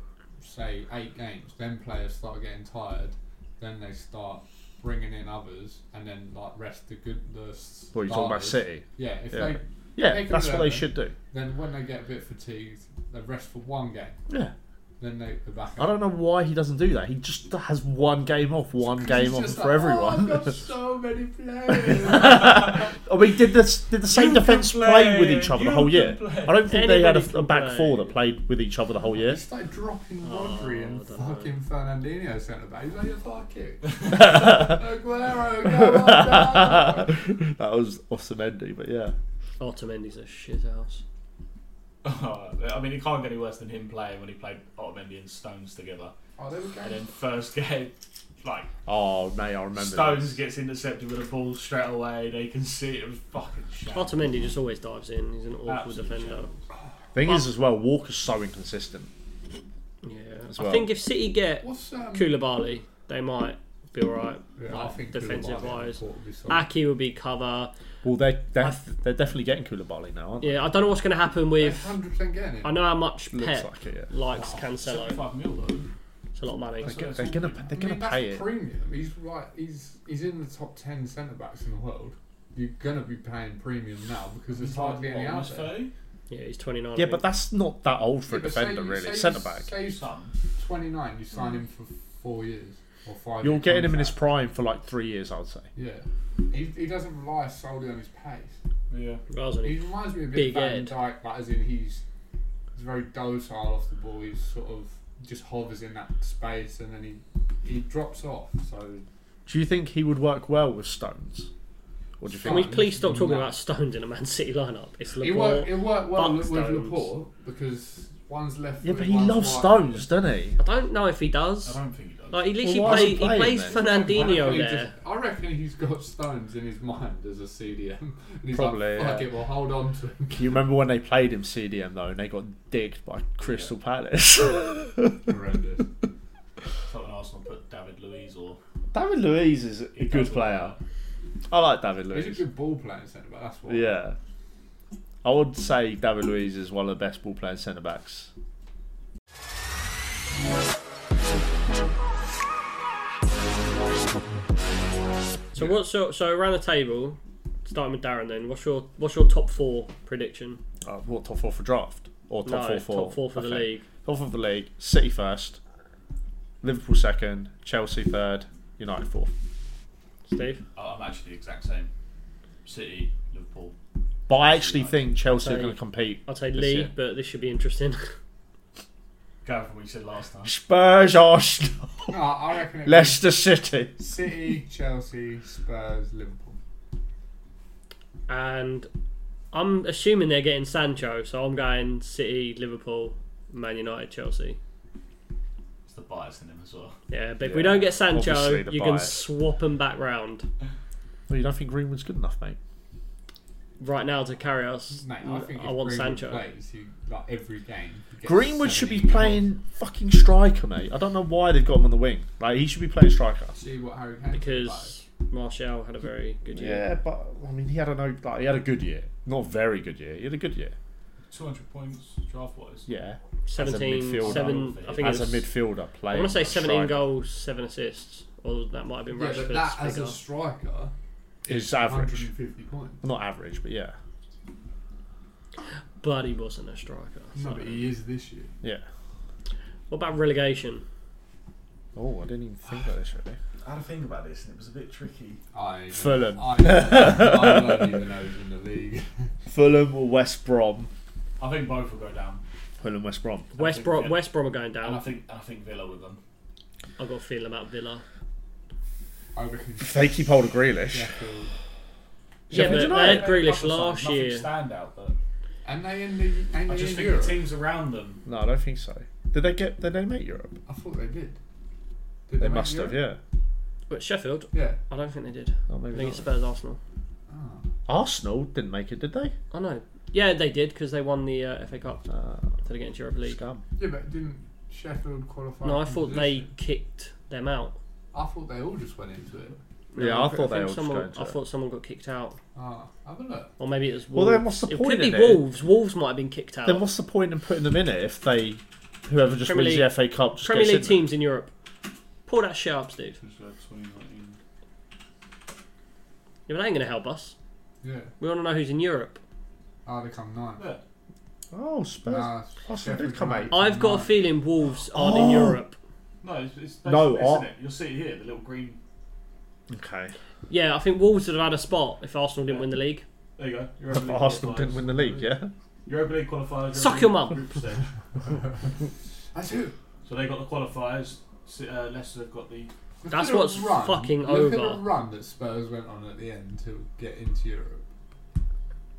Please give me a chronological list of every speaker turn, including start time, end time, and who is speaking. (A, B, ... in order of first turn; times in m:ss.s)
0:00.4-0:14.2 A
0:07.9-0:11.2 B
0:15.0-0:16.0 A
0:15.8-0:20.6 B
0:18.8-0:22.9 A
0:21.7-0:29.4 B
0:24.1-0:26.6 C
0:26.7-0:28.2 D
0:29.1-0:37.2 A
0:30.2-0:31.5 D
0:34.2-0:34.8 B
0:35.6-0:39.2 B
0:39.6-0:41.0 D
0:42.0-0:46.1 C
0:46.4-0:47.0 A
0:46.8-0:48.7 C
0:48.9-0:50.4 B
0:49.8-0:54.2 C
0:53.9-0:56.5 D
0:55.7-0:56.6 C
0:57.1-0:59.1 B
1:00.0-1:07.7 D
1:00.5-1:00.9 B
1:01.6-1:02.4 A
1:04.6-1:06.7 A
1:08.0-1:10.7 B
1:10.4-1:12.0 D
1:11.6-1:12.8 A
1:12.6-1:15.2 D
1:13.3-1:14.1 B
1:14.4-1:15.9 C
1:16.4-1:17.0 D
1:16.8-1:17.7 C
1:16.8-1:18.5 B
1:17.2-1:25.8 A
1:24.5-1:25.9 C
1:26.3-1:27.3 D
1:27.0-1:29.8 B
1:28.3-1:34.2 A
1:29.9-1:30.3 C
1:33.4-1:35.7 B
1:35.8-1:38.6 A
1:38.9-1:39.2 C
1:39.3-1:41.0 D
1:39.6-1:42.0 A
1:42.7-1:49.0 A
1:49.5-1:51.5 B
1:52.2-1:52.8 B
1:52.3-1:53.6 A
1:52.4-1:57.1 D
1:55.2-2:00.1 A
1:58.8-2:00.6 B
2:00.6-2:01.8 D
2:01.6-2:02.6 C
2:02.3-2:04.9 D
2:02.6-2:03.8 B
2:02.8-2:10.6 A
2:08.5-2:09.3 B
2:10.3-2:15.3 B
2:13.4-2:13.7 C
2:15.3-2:15.9 A
2:16.9-2:18.6 C
2:18.9-2:20.8 B
2:20.0-2:20.8 C
2:21.5-2:22.4 B
2:22.1-2:23.9 A
2:23.7-2:24.2 B
2:25.2-2:28.3 B
2:35.5-2:40.6 D
2:40.8-2:45.6 B
2:42.5-2:43.8 D
2:46.6-2:49.3 B
2:50.3-2:50.6 D
2:50.8-2:51.9 C
2:52.6-2:53.8 C
2:54.3-2:56.9 B
2:54.3-2:55.1 C
2:55.3-2:58.1 D
2:59.4-3:00.6 C
3:00.4-3:04.0 B
3:02.1-3:03.2 A
3:04.0-3:06.6 A
3:08.3-3:08.9 D
3:09.5-3:14.6 D
3:15.9-3:17.0 C
3:17.1-3:20.5 D
3:17.4-3:19.2 B
3:21.3-3:22.6 B
3:23.8-3:26.4 D
3:24.9-3:29.5 A
3:28.2-3:33.6 B
3:33.5-3:35.0 A
3:34.3-3:36.9 D
3:36.6-3:40.8 B
3:41.3-3:42.9 C
3:42.9-3:47.1 B
3:43.4-3:45.5 D
3:44.2-3:45.4 C
3:46.1-3:50.2 D
3:49.1-3:50.9 A
3:51.4-3:53.0 A
3:51.5-3:52.3 B
3:53.0-3:54.0 B
3:56.0-3:57.9 D
3:57.4-3:58.5 A
3:59.9-4:00.8 D
4:02.0-4:03.4 B
4:03.6-4:05.4 C
4:05.5-4:09.3 A
4:05.9-4:08.0 B
4:09.5-4:10.9 B
4:11.4-4:12.4 C
4:12.8-4:13.6 B
4:13.5-4:14.2 C
4:13.6-4:15.1 D
4:14.8-4:16.2 C
4:17.0-4:18.0 D
4:19.4-4:20.3 A
4:19.8-4:21.1 B
4:20.9-4:21.5 A
4:22.5-4:23.4 B
4:22.5-4:24.5 D
4:22.5-4:25.2 C
4:25.6-4:27.5 A
4:26.7-4:28.2 C
4:28.3-4:30.6 B
4:30.7-4:31.4 A
4:32.3-4:33.1 A
4:32.4-4:33.2 B
4:33.9-4:36.8 D
4:34.5-4:34.8 A
4:35.7-4:36.3 B
4:37.3-4:37.7 A
4:37.9-4:39.4 B
4:39.5-4:42.1 D
4:42.1-4:42.6 B
4:42.6-4:43.4 D
4:43.2-4:43.6 B
4:43.8-4:46.5 A
4:45.6-4:47.8 D
4:48.1-4:49.6 A
4:49.9-4:52.4 D
4:50.0-4:51.4 B
4:52.6-4:53.5 A
4:53.6-4:56.9 D
4:54.1-4:55.4 B
4:56.6-5:01.1 B
4:59.4-5:01.5 D
5:02.3-5:03.2 D
5:03.2-5:04.4 C
5:06.5-5:07.4 D
5:07.8-5:08.1 A
5:08.2-5:09.2 D
5:09.8-5:10.7 A
5:10.6-5:10.8 C
5:11.5-5:13.6 B
5:12.1-5:14.2 A
5:13.5-5:15.8 D
5:14.9-5:15.6 B
5:16.2-5:18.8 C
5:16.8-5:17.5 B
5:19.7-5:20.1 B
5:20.5-5:23.0 D
5:23.4-5:25.3 C
5:23.9-5:25.5 B
5:25.9-5:27.9 C
5:26.7-5:27.5 D
5:28.2-5:28.8 A
5:29.3-5:29.8 A
5:30.0-5:32.7 C
5:33.0-5:37.8 A
5:33.1-5:34.8 D